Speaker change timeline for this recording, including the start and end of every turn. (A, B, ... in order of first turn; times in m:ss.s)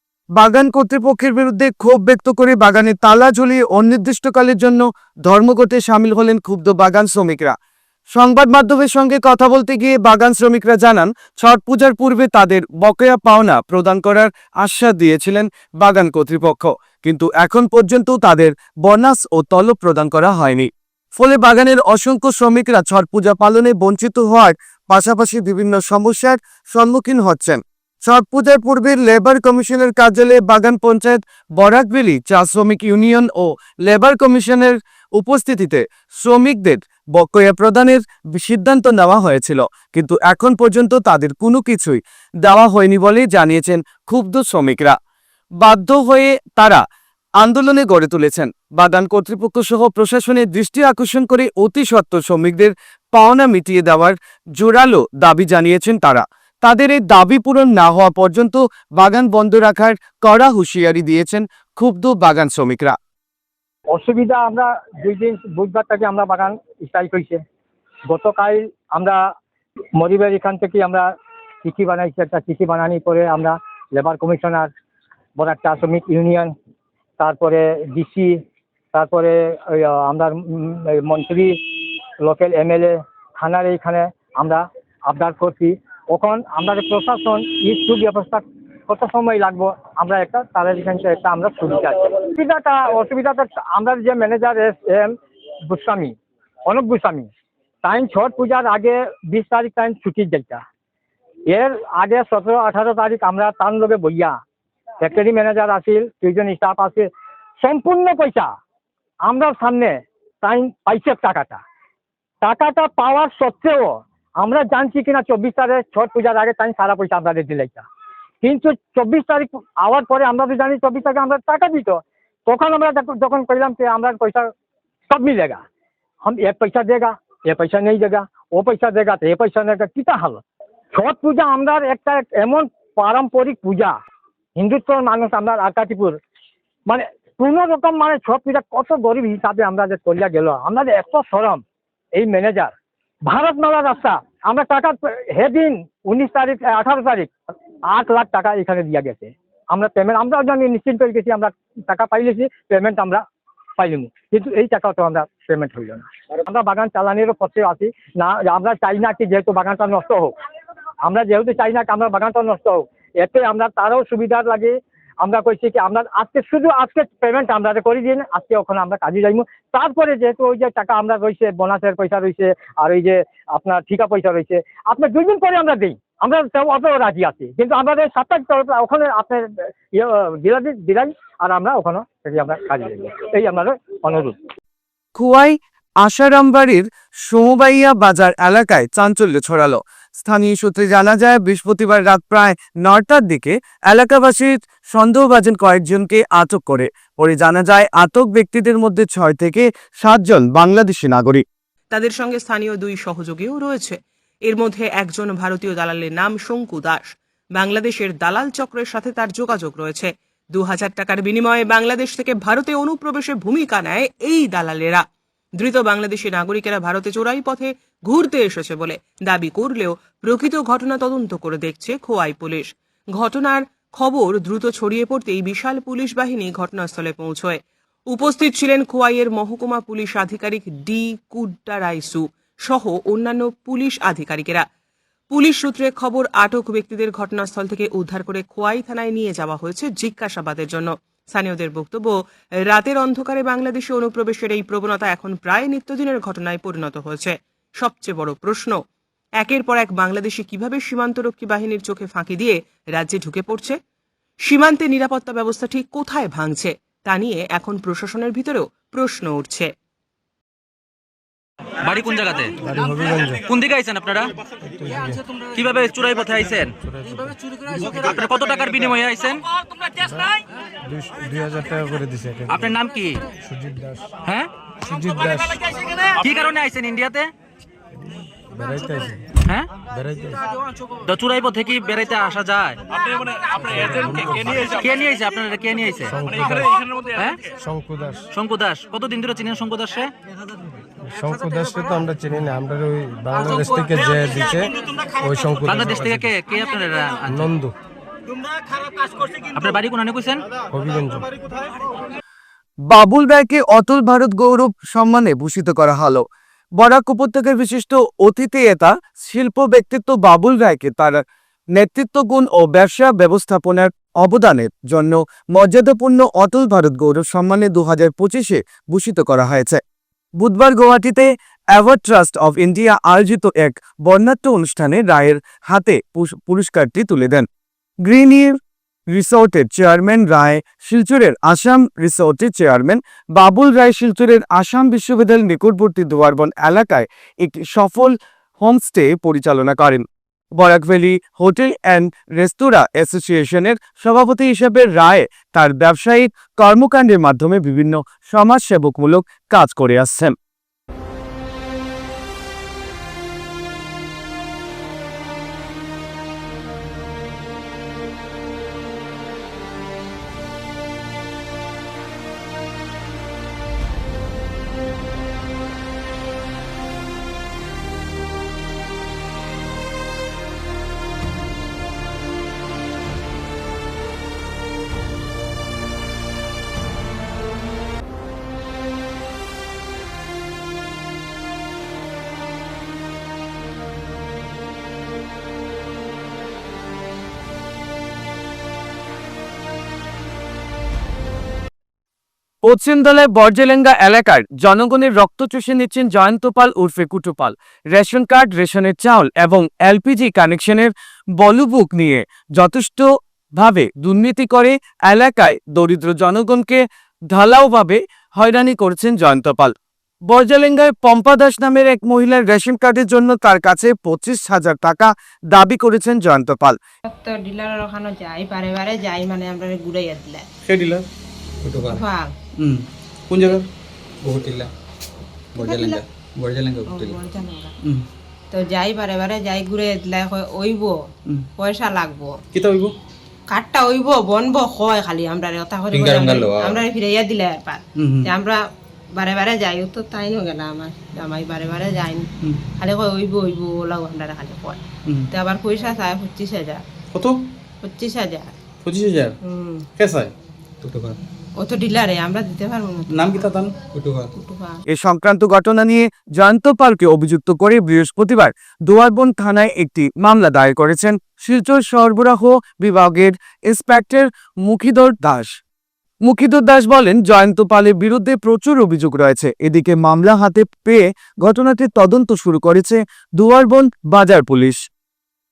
0:00.3-0:07.5 A
0:08.1-0:45.0 A
0:45.6-0:46.8 A
0:47.4-1:03.0 A
1:03.9-1:07.4 B
1:08.1-1:09.2 B
1:10.0-1:11.1 B
1:11.6-1:14.7 B
1:15.4-1:16.5 B
1:17.2-1:18.4 B
1:18.9-1:21.6 B
1:22.2-1:35.1 B
1:35.7-1:36.1 B
1:36.6-1:37.3 B
1:37.8-1:40.6 B
1:41.5-1:44.4 B
1:45.0-1:47.1 B
1:47.6-1:48.5 B
1:49.2-1:51.6 B
1:52.4-1:57.8 B
1:58.4-2:04.5 B
2:05.1-2:05.6 B
2:06.2-2:10.4 B
2:10.9-2:13.9 B
2:14.6-2:16.2 B
2:16.9-2:21.6 B
2:22.1-2:22.7 B
2:23.2-2:27.3 B
2:27.9-2:33.2 B
2:33.8-2:40.3 B
2:41.0-3:04.4 B
3:05.1-3:21.4 A
3:21.9-3:35.0 C
3:35.6-3:47.6 C
3:48.1-3:54.6 C
3:55.3-4:02.1 C
4:02.7-4:08.8 C
4:09.4-4:13.8 C
4:14.4-4:19.7 C
4:21.8-4:22.5 D
4:22.6-4:23.4 E
4:23.4-4:24.3 D
4:24.6-4:25.2 E
4:25.5-4:26.7 D
4:27.7-4:29.4 D
4:30.8-4:32.5 E
4:32.5-4:33.2 D
4:33.4-4:34.1 E
4:34.2-4:34.5 D
4:34.8-4:35.5 E
4:36.1-4:37.3 D
4:38.5-4:39.2 E
4:39.4-4:39.7 D
4:39.9-4:40.4 E
4:41.0-4:42.8 D
4:43.4-4:46.5 D
4:43.8-4:44.6 E
4:46.2-4:46.7 E
4:47.1-4:47.4 D
4:47.6-4:48.2 E
4:48.3-4:50.1 D
4:51.0-4:56.0 E
4:55.6-4:57.6 D
4:59.5-5:00.4 D
5:00.7-5:01.3 E
5:02.9-5:06.2 A
5:06.8-5:19.8 A
5:20.4-5:27.4 A
5:28.0-5:28.6 A
5:29.1-5:40.0 A
5:40.6-5:50.3 A
6:32.6-6:49.7 A
6:50.3-6:56.8 A
6:57.0-7:00.5 F
7:00.6-7:01.0 G
7:01.6-7:02.0 G
7:01.8-7:02.3 F
7:02.6-7:03.7 G
7:04.2-7:04.7 G
7:05.5-7:07.2 G
7:05.6-7:06.0 F
7:06.9-7:07.7 F
7:08.5-7:11.0 F
7:11.6-7:12.4 F
7:12.5-7:12.9 G
7:13.5-7:18.6 F
7:15.9-7:16.8 G
7:18.0-7:18.3 G
7:19.1-7:26.8 F
7:27.1-7:27.4 G
7:27.8-7:28.6 F
7:28.8-7:29.4 G
7:29.4-7:29.8 F
7:30.0-7:31.2 G
7:31.6-7:33.5 F
7:33.1-7:34.3 G
7:34.4-7:34.8 F
7:34.9-7:45.5 A
7:46.2-7:54.8 A